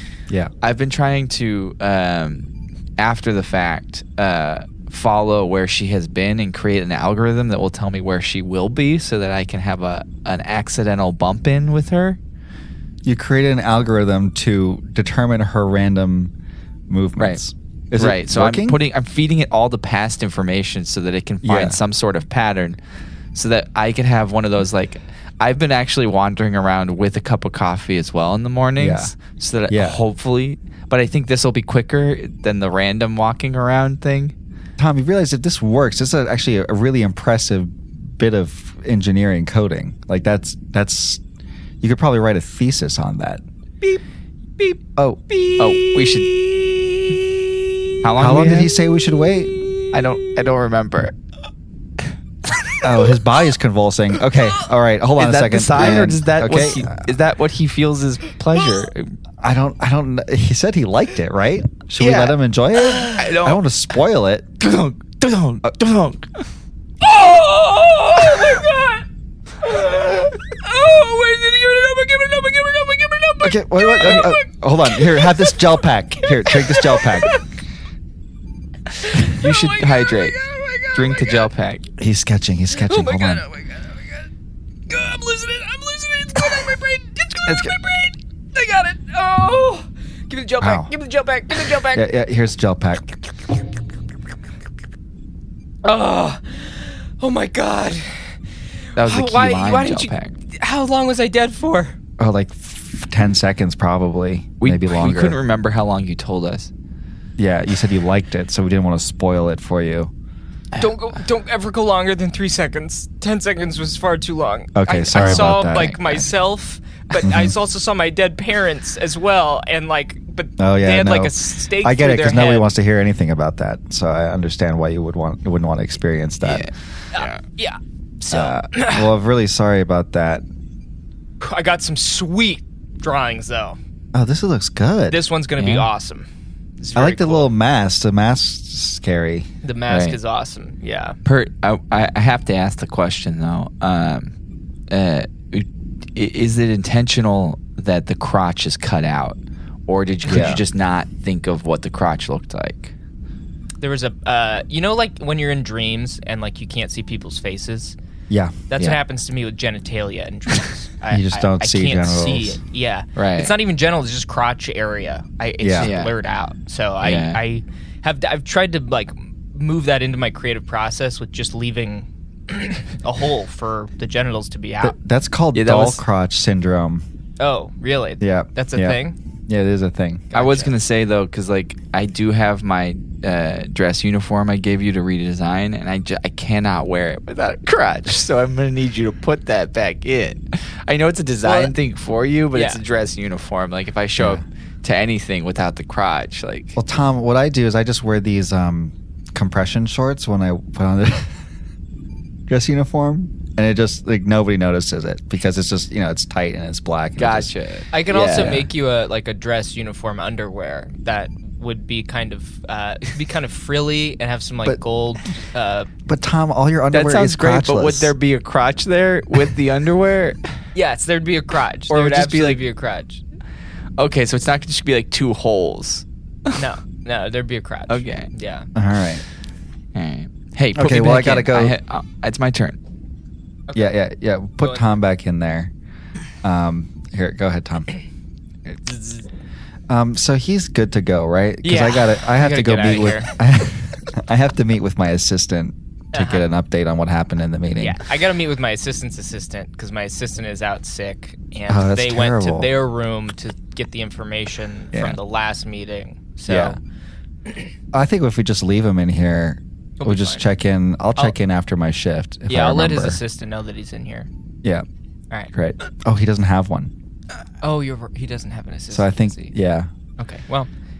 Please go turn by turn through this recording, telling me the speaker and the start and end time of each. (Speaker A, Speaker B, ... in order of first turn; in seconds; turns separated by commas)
Speaker A: 0.6-12.2, Speaker B: 13.0-16.3, Speaker B: 16.9-18.8, Speaker A: 17.9-22.8, Speaker B: 21.4-21.8, Speaker A: 23.3-34.3, Speaker B: 28.8-29.1, Speaker B: 29.7-30.0, Speaker B: 34.8-41.2, Speaker B: 41.8-43.4, Speaker B: 45.0-45.2, Speaker C: 45.3-47.4, Speaker A: 45.6-46.3, Speaker A: 48.0-48.7, Speaker B: 48.2-49.5, Speaker C: 49.5-50.3, Speaker A: 49.9-51.1, Speaker B: 52.8-57.1, Speaker A: 55.1-59.1, Speaker B: 59.4-64.5, Speaker A: 62.0-62.3, Speaker A: 63.0-63.6, Speaker A: 64.6-66.5, Speaker C: 67.0-69.0, Speaker C: 69.6-75.7, Speaker B: 73.4-77.3, Speaker C: 76.2-77.4, Speaker C: 79.0-81.5, Speaker A: 79.3-80.4, Speaker A: 80.9-81.9, Speaker B: 82.0-83.4, Speaker C: 82.7-84.2, Speaker C: 84.9-92.1, Speaker B: 87.5-87.7, Speaker B: 90.6-90.9, Speaker B: 91.9-93.0, Speaker C: 95.8-98.3, Speaker C: 98.9-102.0, Speaker A: 99.0-100.3, Speaker B: 102.2-105.4, Speaker A: 104.6-106.7, Speaker B: 107.4-110.1, Speaker C: 110.8-122.7, Speaker B: 114.7-115.9, Speaker A: 115.1-116.3, Speaker B: 117.2-117.5, Speaker B: 120.6-126.7, Speaker A: 126.4-127.4, Speaker C: 127.1-129.1, Speaker B: 128.3-130.4, Speaker C: 131.4-133.8, Speaker B: 134.1-135.2, Speaker C: 135.1-136.3, Speaker A: 135.6-135.9, Speaker C: 136.8-137.5, Speaker B: 136.9-139.5, Speaker C: 139.6-141.2, Speaker A: 139.9-140.2, Speaker A: 141.2-144.3, Speaker A: 144.9-152.9, Speaker B: 150.3-150.6, Speaker C: 153.8-157.9, Speaker B: 158.3-158.5, Speaker C: 158.7-174.9, Speaker B: 161.1-162.6, Speaker A: 163.2-163.5, Speaker B: 165.6-165.9, Speaker A: 165.8-166.1, Speaker A: 167.0-167.4, Speaker B: 174.8-177.0, Speaker A: 175.5-176.0, Speaker C: 177.4-179.2, Speaker B: 178.2-180.3, Speaker C: 180.3-180.8, Speaker A: 180.3-196.8, Speaker C: 191.4-191.7, Speaker C: 192.5-192.8, Speaker B: 194.2-194.4, Speaker B: 196.8-201.3, Speaker B: 202.5-207.5, Speaker A: 207.2-208.7, Speaker C: 207.9-215.9, Speaker B: 216.1-218.1, Speaker A: 216.9-220.4, Speaker C: 220.7-223.2, Speaker A: 221.9-222.6, Speaker A: 224.0-226.6, Speaker C: 226.5-228.7, Speaker A: 227.9-228.3, Speaker B: 228.7-229.2, Speaker A: 229.9-232.8, Speaker B: 230.7-231.7, Speaker C: 233.7-233.9, Speaker B: 233.7-235.7, Speaker B: 236.4-237.9, Speaker C: 238.8-239.3, Speaker B: 239.9-248.0, Speaker C: 241.6-243.3, Speaker C: 246.1-246.4, Speaker C: 247.8-256.8, Speaker B: 251.7-252.7, Speaker B: 254.9-255.2, Speaker B: 256.5-256.8, Speaker B: 257.9-263.2, Speaker C: 260.0-260.4, Speaker C: 262.5-264.3, Speaker B: 265.5-266.9, Speaker C: 267.6-269.5, Speaker B: 268.9-269.9, Speaker C: 270.2-270.7